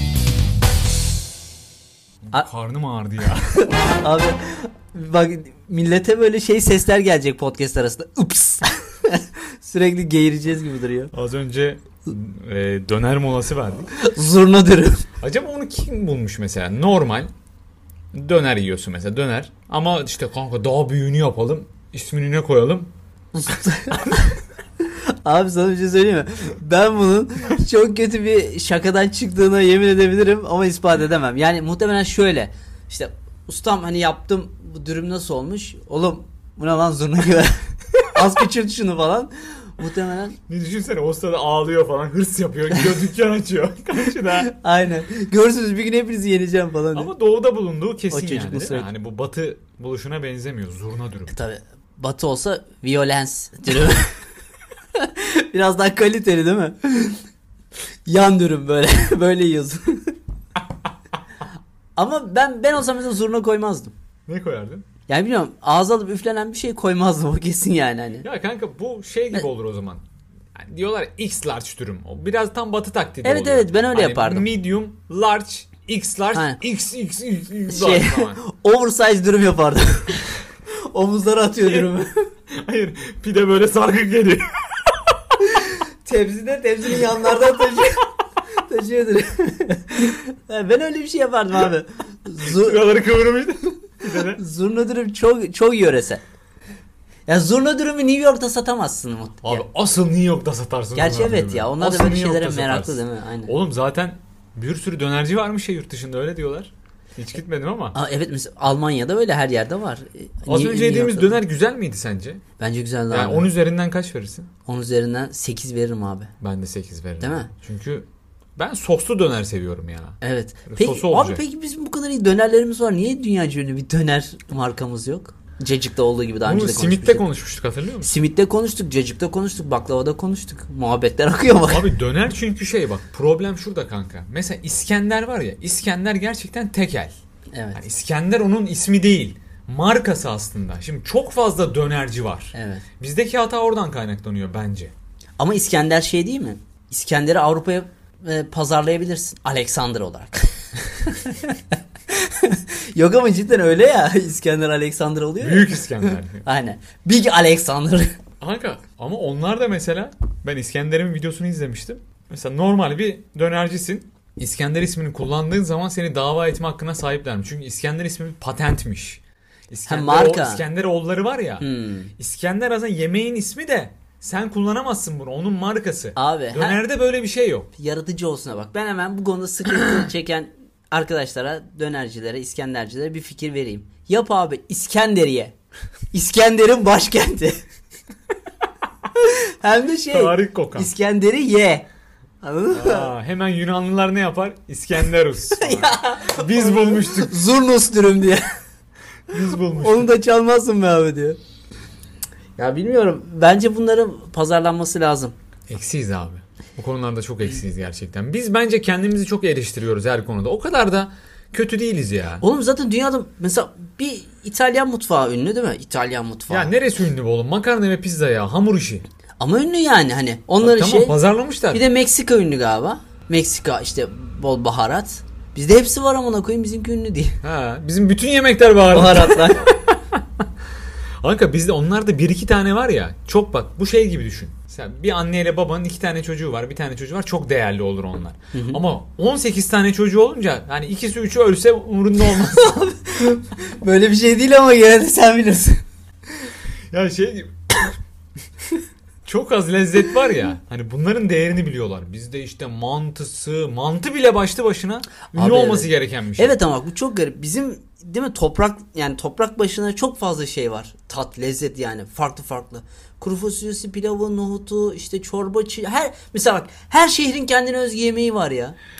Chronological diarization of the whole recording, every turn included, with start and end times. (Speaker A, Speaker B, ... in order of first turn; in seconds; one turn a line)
Speaker A: 2.2-3.7
Speaker B: 3.5-11.1
Speaker A: 11.1-13.9
Speaker B: 13.9-15.1
Speaker A: 15.2-17.3
Speaker A: 18.1-22.9
Speaker B: 23.3-40.4
Speaker A: 40.5-44.5
Speaker B: 44.2-47.1
Speaker A: 46.9-51.3
Speaker B: 48.1-48.9
Speaker B: 51.3-54.2
Speaker B: 55.0-57.2
Speaker B: 58.0-60.1
Speaker B: 62.0-63.9
Speaker A: 64.3-64.8
Speaker B: 65.1-68.2
Speaker A: 68.2-70.0
Speaker A: 70.5-78.4
Speaker B: 73.2-74.5
Speaker B: 76.3-76.6
Speaker B: 77.7-82.3
Speaker A: 81.6-81.9
Speaker A: 82.5-85.1
Speaker B: 85.4-92.9
Speaker A: 92.4-94.4
Speaker B: 94.3-96.2
Speaker B: 97.3-99.6
Speaker A: 99.4-108.0
Speaker B: 100.9-103.5
Speaker B: 107.9-111.3
Speaker A: 110.5-112.4
Speaker B: 112.6-113.5
Speaker A: 113.1-114.5
Speaker B: 114.7-116.3
Speaker A: 116.4-121.4
Speaker B: 117.2-117.5
Speaker B: 120.2-127.2
Speaker A: 126.4-128.1
Speaker B: 128.0-131.9
Speaker A: 131.7-137.1
Speaker B: 137.5-137.8
Speaker A: 137.7-144.9
Speaker B: 142.5-142.8
Speaker B: 145.4-158.2
Speaker A: 155.4-156.4
Speaker A: 158.4-171.7
Speaker B: 169.9-170.6
Speaker B: 171.6-172.1
Speaker A: 172.2-177.7
Speaker B: 176.2-176.8
Speaker B: 177.8-185.5
Speaker B: 186.1-187.6
Speaker B: 189.1-191.9
Speaker A: 190.1-190.9
Speaker B: 192.4-193.1
Speaker A: 192.7-197.4
Speaker B: 195.6-198.4
Speaker A: 199.3-200.1
Speaker B: 199.6-201.4
Speaker B: 202.6-205.3
Speaker A: 205.7-212.4
Speaker B: 212.4-216.7
Speaker A: 216.5-219.0
Speaker B: 219.4-221.2
Speaker A: 220.6-221.8
Speaker B: 221.7-227.4
Speaker A: 227.4-229.9
Speaker B: 228.9-229.7
Speaker A: 231.2-242.7
Speaker B: 238.5-238.8
Speaker B: 242.2-245.8
Speaker A: 246.9-247.9
Speaker A: 249.2-256.6
Speaker B: 255.3-268.8